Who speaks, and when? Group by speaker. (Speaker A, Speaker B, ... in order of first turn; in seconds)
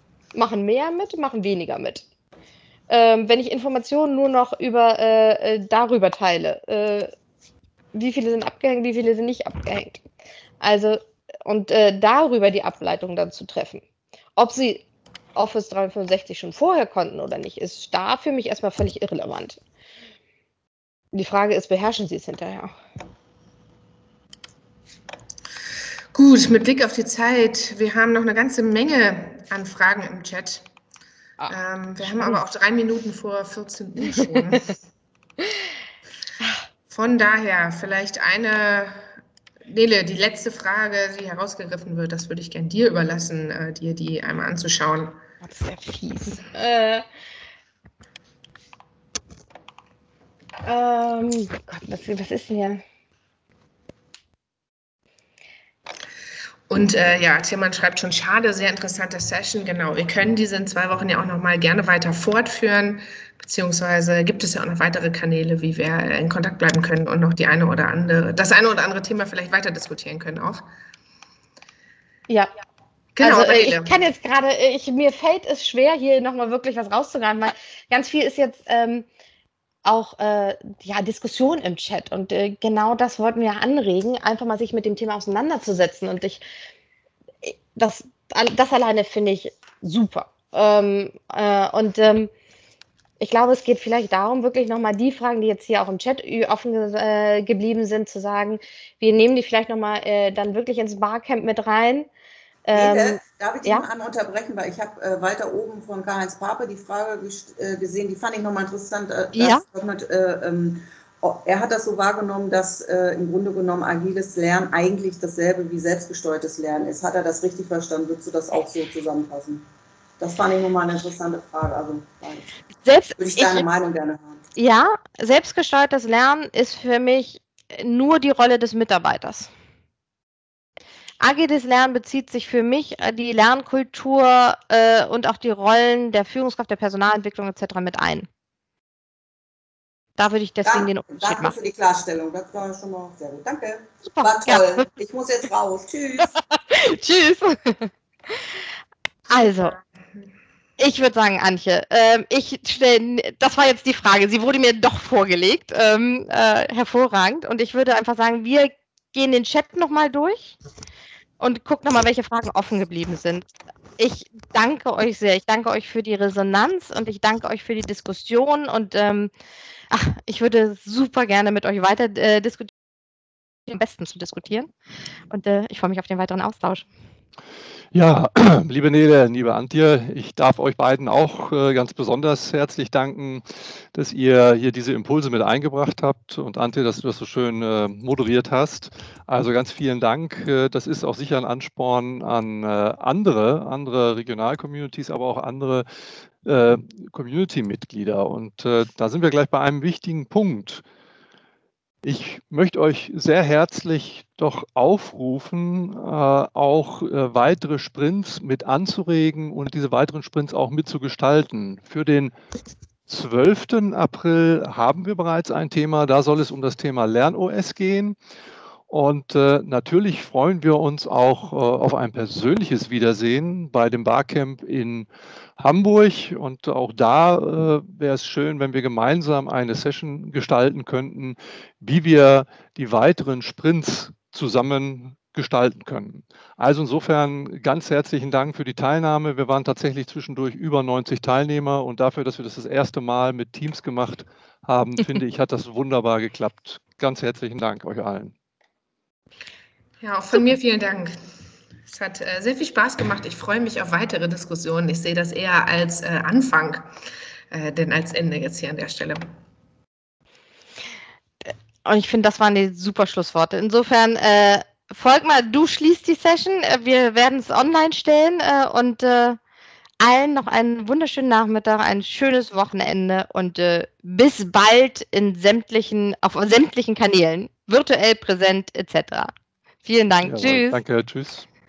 Speaker A: 0.3-2.0, 2.9-7.1, 7.9-10.0, 10.6-13.8, 14.4-19.6, 21.1-22.7, 31.4-32.4, 45.4-47.0, 50.6-52.8, 73.2-79.1, 79.8-86.4, 87.4-92.3, 93.2-102.1, 102.6-103.8, 109.3-109.6, 122.8-123.7, 124.6-129.5, 131.2-138.3, 140.2-141.5, 144.1-144.9, 146.2-148.6, 149.3-149.8, 150.8-160.6, 161.4-169.3, 169.9-172.7, 173.7-174.7, 175.3-176.9, 261.4-269.4, 270.0-279.3, 279.8-280.8
Speaker B: 26.1-30.7, 31.5-34.7, 36.9-39.1, 39.7-45.2, 56.7-70.6, 73.2-73.9, 149.4-150.2, 250.0-251.2, 251.9-256.9, 257.5-259.2
Speaker C: 102.7-119.7, 120.2-122.5, 123.2-124.5, 140.6-146.4
Speaker D: 177.9-195.9, 196.4-200.8, 202.0-212.3, 213.1-218.2, 218.9-248.3, 280.2-281.4